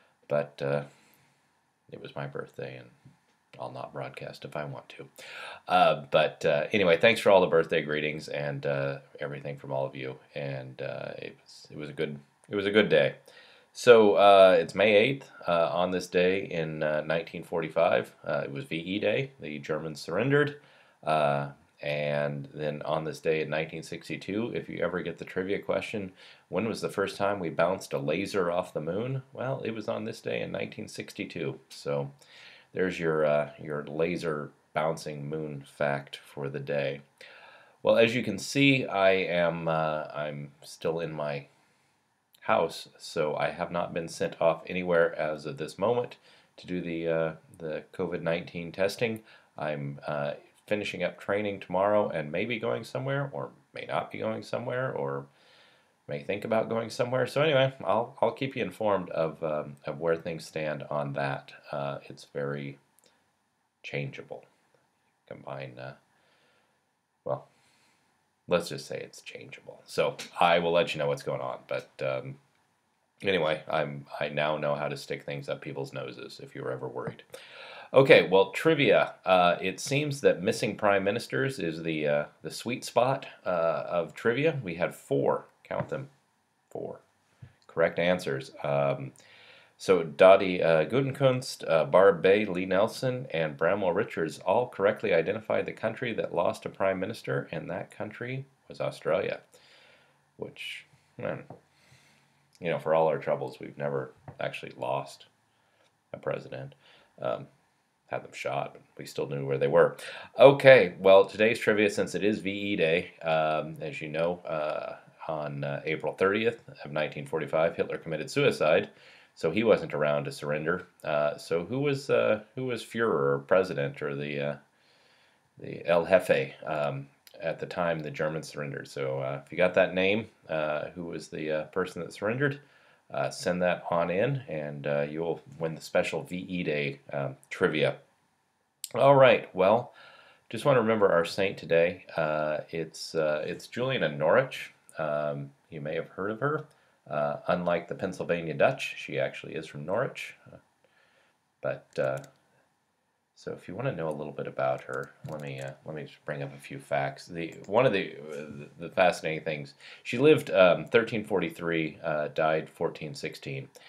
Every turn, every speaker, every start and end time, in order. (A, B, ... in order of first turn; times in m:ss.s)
0:00.3-0:00.8 A
0:01.9-0:02.9 A
0:03.6-0:05.1 A
0:05.7-0:13.2 A
0:13.7-0:32.1 A
0:32.7-0:37.0 A
0:37.8-0:41.5 A
0:42.4-0:55.3 A
0:56.1-1:02.8 A
1:03.8-1:04.4 A
1:05.3-1:06.0 A
1:08.5-1:12.4 A
1:13.2-1:17.2 A
1:17.9-1:26.1 A
1:26.7-1:27.0 A
1:27.6-1:29.1 A
1:29.8-1:39.4 A
1:40.4-1:41.5 A
1:42.6-1:45.3 A
1:46.1-1:47.5 A
1:48.1-2:04.6 A
2:05.6-2:18.0 A
2:19.0-2:19.9 A
2:20.5-2:30.6 A
2:31.6-2:32.2 A
2:33.3-2:43.7 A